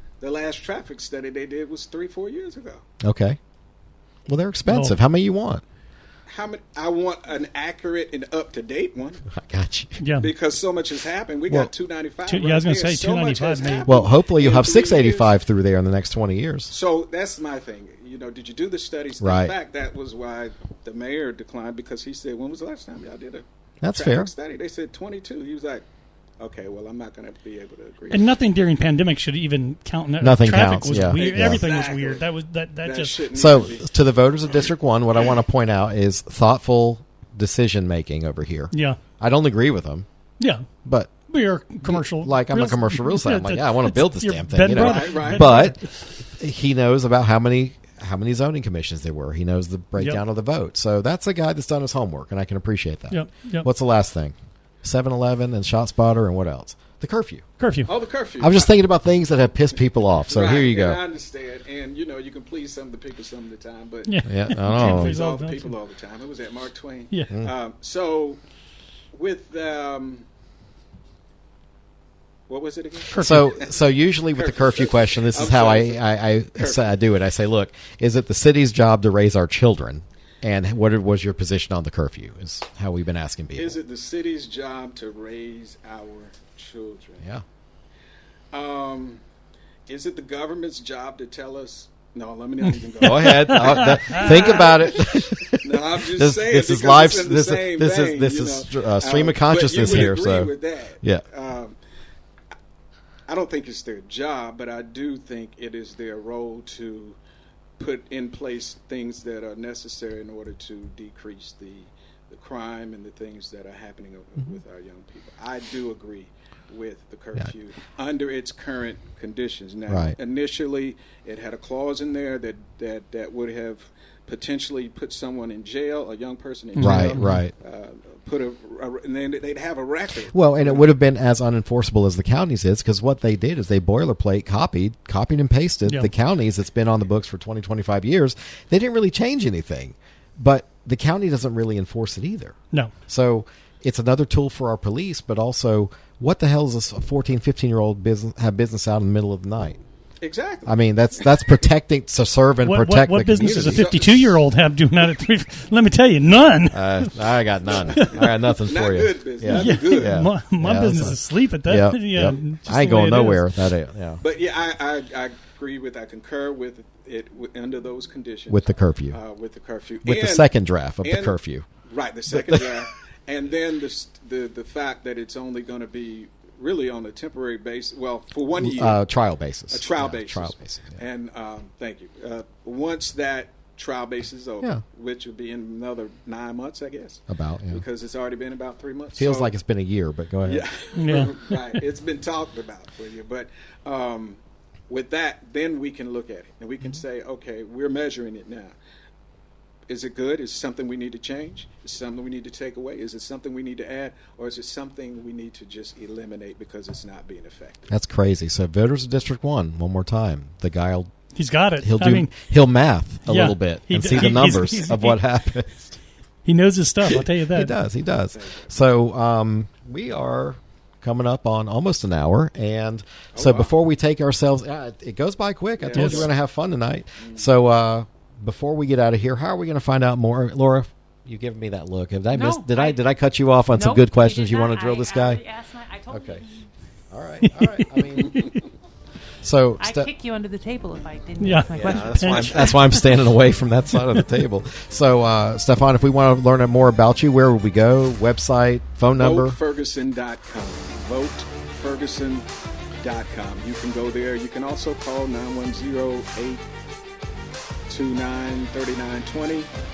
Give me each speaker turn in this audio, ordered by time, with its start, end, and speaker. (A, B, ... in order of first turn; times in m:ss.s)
0:00.2-0:02.8 A
0:03.0-0:03.4 B
0:04.3-0:05.6 B
0:04.7-0:05.0 C
0:06.3-0:09.3 A
0:09.3-0:10.0 B
0:10.0-0:10.3 C
0:10.2-0:15.3 A
0:12.3-0:13.9 C
0:13.9-0:16.7 B
0:16.7-0:25.8 A
0:19.2-0:19.5 B
0:23.8-0:24.3 B
0:26.4-0:28.3 A
0:28.1-0:33.2 C
0:30.2-0:31.6 B
0:31.1-0:32.3 A
0:32.8-0:33.9 A
0:33.3-0:40.1 B
0:38.7-0:39.0 C
0:40.4-0:40.7 C
0:40.8-0:41.1 B
0:41.3-0:45.9 C
0:41.8-0:45.8 B
0:44.7-0:45.7 A
0:46.4-0:57.4 B
0:50.0-0:50.2 C
0:53.1-0:53.7 C
0:57.6-0:57.9 C
0:57.9-0:58.8 A
0:58.4-1:01.0 B
1:00.3-1:08.4 A
1:04.1-1:05.7 C
1:04.3-1:05.2 B
1:09.1-1:10.2 A
1:12.5-1:13.8 A
1:13.1-1:13.4 C
1:13.2-1:23.8 B
1:14.4-1:17.0 A
1:23.6-1:27.2 A
1:28.5-1:29.2 A
1:29.9-1:41.8 A
1:33.0-1:41.2 B
1:33.2-1:34.3 C
1:43.3-1:47.2 A
1:47.8-2:11.0 A
1:59.9-2:00.2 B
2:06.8-2:07.4 C
2:06.8-2:07.5 B
2:10.3-2:22.6 B
2:23.1-2:29.8 B
2:30.2-2:31.5 A
2:30.7-2:33.9 B
2:32.6-2:37.1 C
2:33.6-2:34.4 A
2:36.7-2:44.2 B
2:37.7-2:40.3 A
2:37.9-2:38.2 C
2:39.5-2:43.5 C
2:44.2-2:50.5 A
2:48.5-2:49.2 B
2:50.0-2:51.7 B
2:51.0-2:59.0 A
2:52.3-2:52.6 B
2:58.6-3:01.0 B
2:59.7-3:09.5 A
3:07.3-3:07.8 B
3:09.2-3:10.7 B
3:10.4-3:18.8 A
3:11.0-3:11.6 C
3:19.9-3:27.9 A
3:27.9-3:31.1 B
3:31.4-3:32.5 C
3:31.8-3:36.0 B
3:33.3-3:35.2 C
3:36.4-3:37.7 C
3:37.0-3:55.4 B
3:38.3-3:38.9 A
3:43.3-3:43.7 A
3:45.8-3:46.3 A
3:46.0-3:46.3 C
3:47.2-3:47.5 A
3:52.3-3:53.0 D
3:53.7-3:56.7 D
3:56.1-3:56.4 B
3:57.1-3:58.4 B
3:57.5-3:58.7 C
3:59.4-4:00.1 B
3:59.8-4:03.2 D
4:01.4-4:02.7 C
4:01.7-4:09.6 B
4:03.9-4:04.3 C
4:09.2-4:12.5 A
4:13.0-4:16.6 A
4:17.9-4:19.7 A